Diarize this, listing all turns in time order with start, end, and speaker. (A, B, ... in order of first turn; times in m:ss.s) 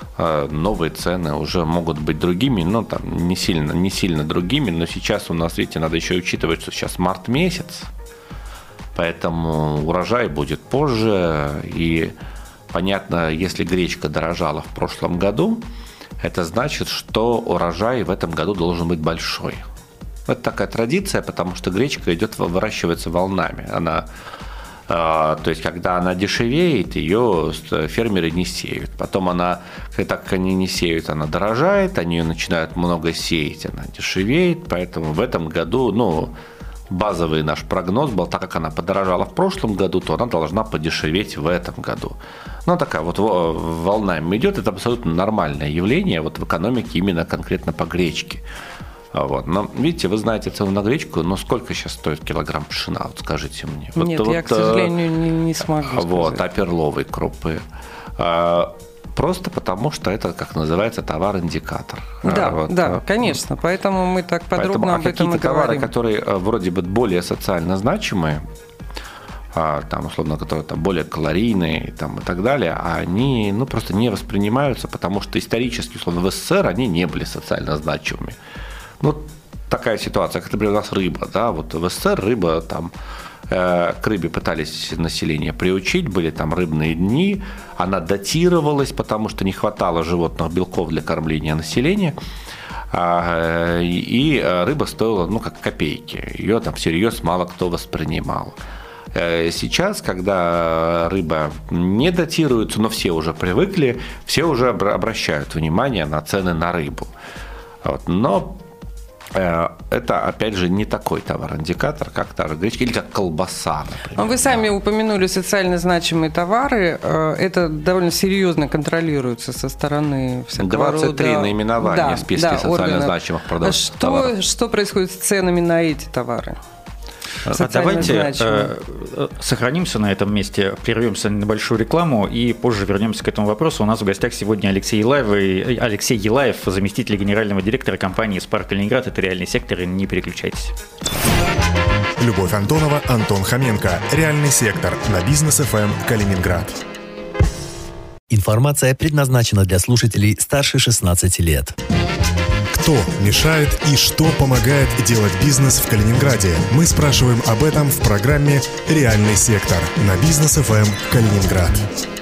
0:00.2-0:07.9 A
0:08.9-0:12.1 A
0:12.7-0:15.6 A
0:16.2-0:19.6 A
0:20.3-0:24.0 A
0:24.9-0:36.3 A
0:36.9-0:48.4 A
0:49.1-0:54.9 A
0:54.0-0:56.4 B
0:55.8-0:57.6 A
0:58.2-1:03.3 A
1:02.2-1:05.9 B
1:04.6-1:08.4 A
1:09.5-1:18.4 A
1:19.0-1:22.9 A
1:23.5-1:32.2 A
1:32.9-1:38.6 A
1:39.1-1:47.1 A
1:47.8-1:48.6 A
1:49.3-1:54.7 A
1:54.2-2:06.6 B
2:00.6-2:04.3 A
2:07.4-2:08.2 A
2:07.5-2:08.7 B
2:07.5-2:20.7 C
2:22.2-2:26.8 D
2:28.3-2:31.7 E
2:32.7-2:41.8 D